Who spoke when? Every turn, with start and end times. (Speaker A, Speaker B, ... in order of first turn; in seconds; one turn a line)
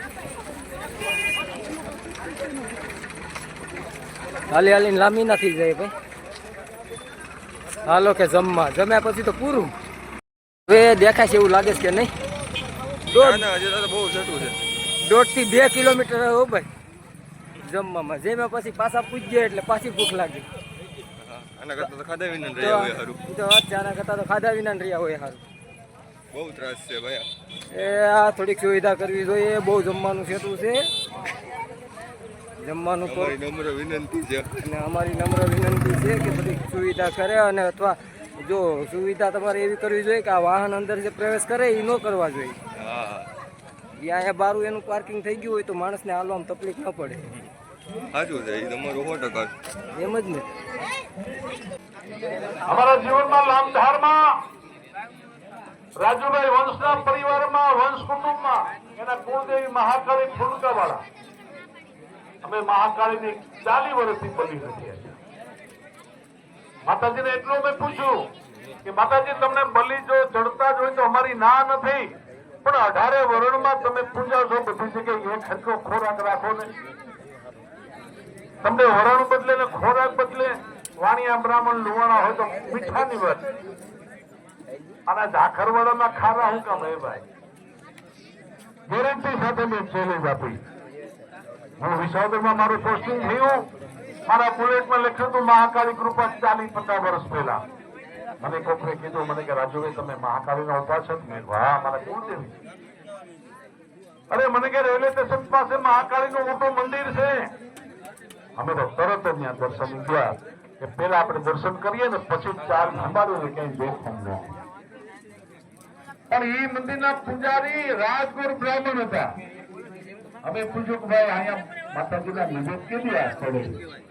Speaker A: 4.5-5.9
Speaker A: 7.9-9.7
Speaker A: 10.7-12.1
Speaker B: 13.1-14.6
Speaker A: 13.1-13.4
Speaker A: 15.0-16.7
Speaker A: 17.6-20.5
Speaker B: 21.2-23.2
Speaker A: 22.6-25.4
Speaker B: 26.3-27.3
Speaker A: 27.7-30.9
Speaker A: 32.6-33.3
Speaker B: 33.0-34.6
Speaker A: 34.6-42.6
Speaker B: 42.8-43.3
Speaker A: 44.0-47.2
Speaker B: 48.1-49.5
Speaker A: 50.0-50.5
Speaker C: 52.7-54.2
Speaker C: 56.0-61.0
Speaker C: 62.4-65.2
Speaker C: 66.9-68.1
Speaker C: 68.8-72.1
Speaker C: 72.6-76.7
Speaker C: 78.6-83.5
Speaker C: 85.1-87.2
Speaker C: 88.9-90.6
Speaker C: 91.8-93.6
Speaker C: 94.3-97.6
Speaker C: 98.4-102.5
Speaker C: 104.3-107.5
Speaker C: 108.6-114.6
Speaker C: 116.3-119.3
Speaker C: 120.4-123.8